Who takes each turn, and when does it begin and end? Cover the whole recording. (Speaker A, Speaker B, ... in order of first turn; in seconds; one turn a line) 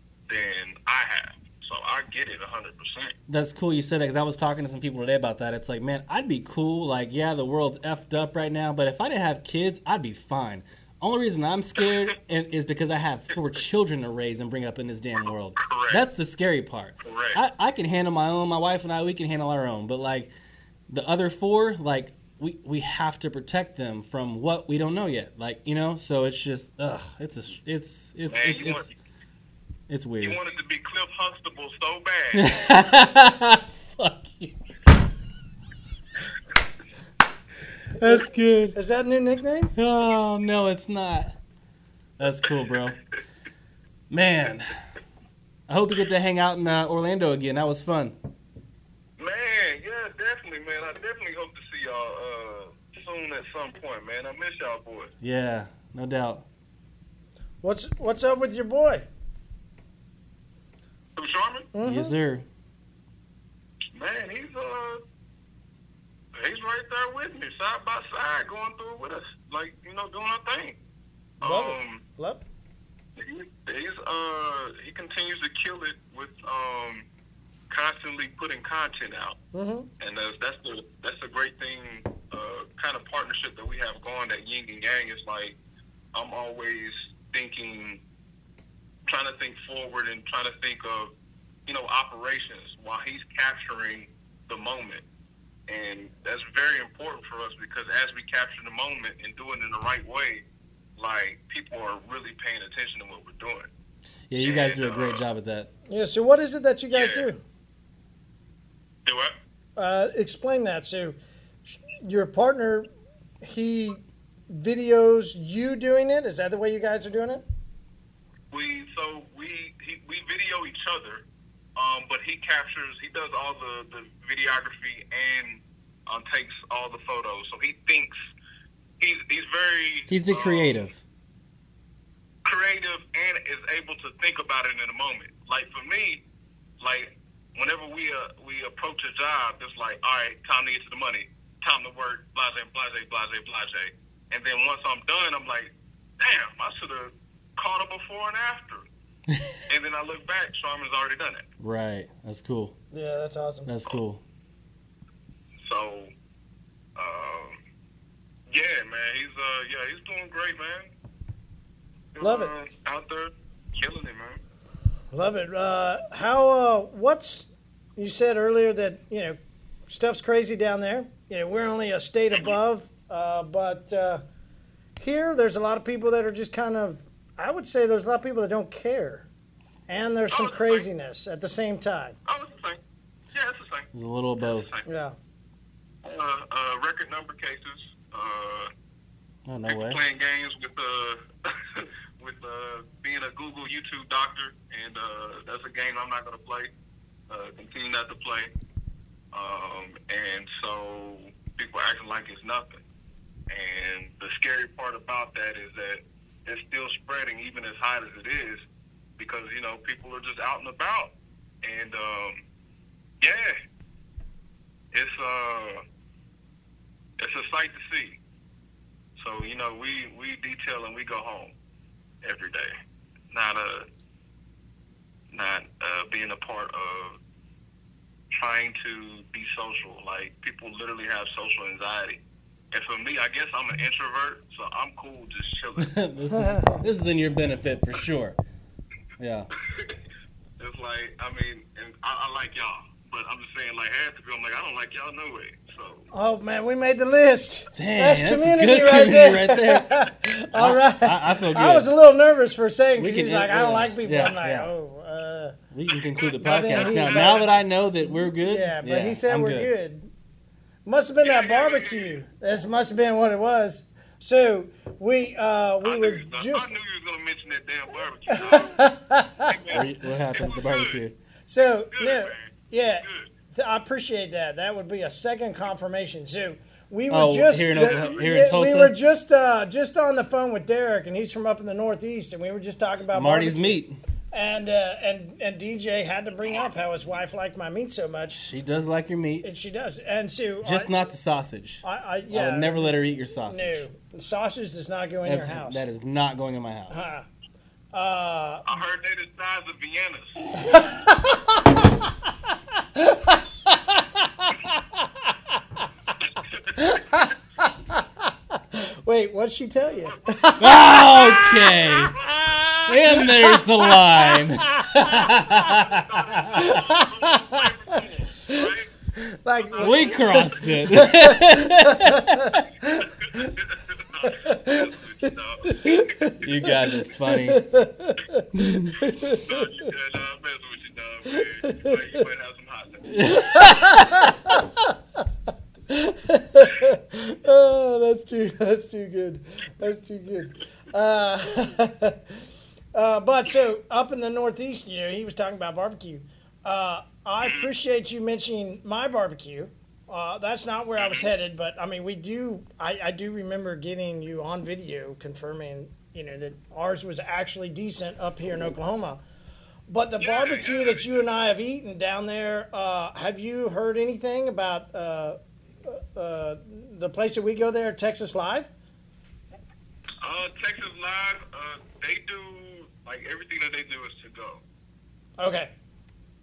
Speaker A: 0.3-3.1
Speaker B: 3.3-20.3
Speaker A: 15.6-16.0
Speaker A: 17.0-17.4
Speaker B: 20.9-28.9
Speaker A: 28.3-28.9
Speaker B: 29.9-30.4
Speaker A: 30.2-32.6
Speaker B: 32.3-34.6
Speaker B: 38.0-38.8
Speaker C: 38.0-39.7
Speaker B: 39.8-41.3
Speaker B: 42.2-43.0
Speaker B: 44.1-44.7
Speaker B: 45.7-48.2
Speaker A: 49.2-55.1
Speaker B: 55.2-56.5
Speaker C: 57.6-59.1
Speaker A: 61.2-61.7
Speaker C: 61.7-62.2
Speaker B: 61.8-62.5
Speaker A: 63.9-65.0
Speaker A: 66.3-70.8
Speaker A: 71.4-72.0
Speaker C: 71.4-72.4
Speaker A: 73.2-77.1
Speaker A: 77.7-79.4
Speaker C: 79.5-79.9
Speaker A: 80.0-85.6
Speaker A: 86.1-88.0
Speaker A: 89.1-91.1
Speaker A: 91.7-95.0
Speaker A: 95.7-100.4
Speaker A: 101.0-103.7
Speaker B: 104.3-105.7
Speaker A: 104.3-105.2
Speaker C: 105.9-107.4
Speaker A: 106.9-107.3
Speaker A: 109.1-109.3
Speaker C: 109.8-112.9
Speaker C: 113.4-117.4
Speaker A: 118.5-121.2
Speaker A: 121.8-128.2
Speaker A: 129.0-130.8
Speaker B: 130.1-131.0
Speaker A: 132.4-136.2
Speaker A: 136.8-148.8
Speaker A: 149.7-151.4
Speaker B: 151.6-152.8
Speaker C: 152.9-153.7
Speaker B: 153.7-154.2
Speaker A: 155.6-156.1
Speaker A: 157.0-157.6
Speaker A: 158.5-160.9
Speaker A: 162.2-164.4
Speaker C: 162.2-162.5
Speaker C: 165.1-174.2
Speaker C: 175.0-179.3
Speaker C: 179.9-182.2
Speaker A: 180.3-180.9
Speaker A: 182.3-182.8
Speaker A: 183.3-183.9
Speaker B: 183.9-184.8
Speaker A: 184.4-184.8
Speaker C: 184.9-185.2
Speaker A: 186.0-188.7
Speaker B: 189.5-190.0
Speaker A: 189.7-196.7
Speaker A: 197.3-198.5
Speaker A: 199.3-202.8
Speaker A: 203.5-208.6
Speaker A: 209.2-211.1
Speaker A: 211.6-212.4
Speaker A: 213.2-213.6
Speaker A: 214.9-215.8
Speaker A: 217.2-218.2
Speaker A: 219.2-221.5
Speaker A: 222.2-222.7
Speaker A: 223.3-223.9
Speaker A: 225.3-227.2
Speaker A: 228.3-232.2
Speaker A: 232.7-236.0
Speaker B: 235.8-238.4
Speaker C: 236.3-236.8
Speaker B: 239.2-239.5
Speaker A: 239.7-240.0
Speaker A: 240.6-246.1
Speaker C: 246.1-255.6
Speaker B: 247.8-250.0
Speaker B: 250.5-251.9
Speaker B: 253.0-254.7
Speaker B: 255.7-259.7
Speaker A: 256.1-257.4
Speaker C: 256.4-257.5
Speaker C: 258.1-260.1
Speaker C: 260.9-266.7
Speaker A: 261.2-262.2
Speaker A: 265.8-268.9
Speaker C: 268.3-269.6
Speaker A: 269.4-271.0
Speaker B: 269.7-271.2
Speaker C: 271.5-288.4
Speaker A: 271.6-273.3
Speaker B: 277.1-279.0
Speaker A: 277.8-278.2
Speaker B: 283.1-284.0
Speaker B: 288.3-289.5
Speaker C: 289.4-290.9
Speaker B: 290.6-293.9
Speaker C: 291.8-295.8
Speaker B: 295.2-297.1
Speaker C: 296.9-297.3
Speaker C: 297.9-298.7
Speaker A: 298.7-300.4
Speaker C: 300.6-301.6
Speaker C: 303.0-304.8
Speaker A: 306.4-307.3
Speaker C: 306.8-315.9
Speaker A: 309.9-312.6
Speaker B: 310.6-312.2
Speaker B: 312.9-316.6
Speaker A: 315.9-318.9
Speaker C: 316.5-317.9
Speaker C: 318.5-323.5
Speaker A: 319.6-320.4
Speaker B: 319.8-322.6
Speaker A: 323.0-326.4
Speaker C: 324.2-324.8
Speaker C: 325.6-329.7
Speaker B: 326.4-327.7
Speaker B: 328.6-328.9
Speaker A: 329.3-333.8
Speaker C: 331.3-332.0
Speaker B: 333.1-334.3
Speaker C: 333.3-334.6
Speaker C: 335.9-342.4
Speaker C: 342.9-359.2
Speaker A: 347.4-347.7
Speaker A: 351.0-351.3
Speaker C: 359.9-368.7
Speaker A: 360.2-361.2
Speaker A: 370.2-374.6
Speaker C: 375.4-375.7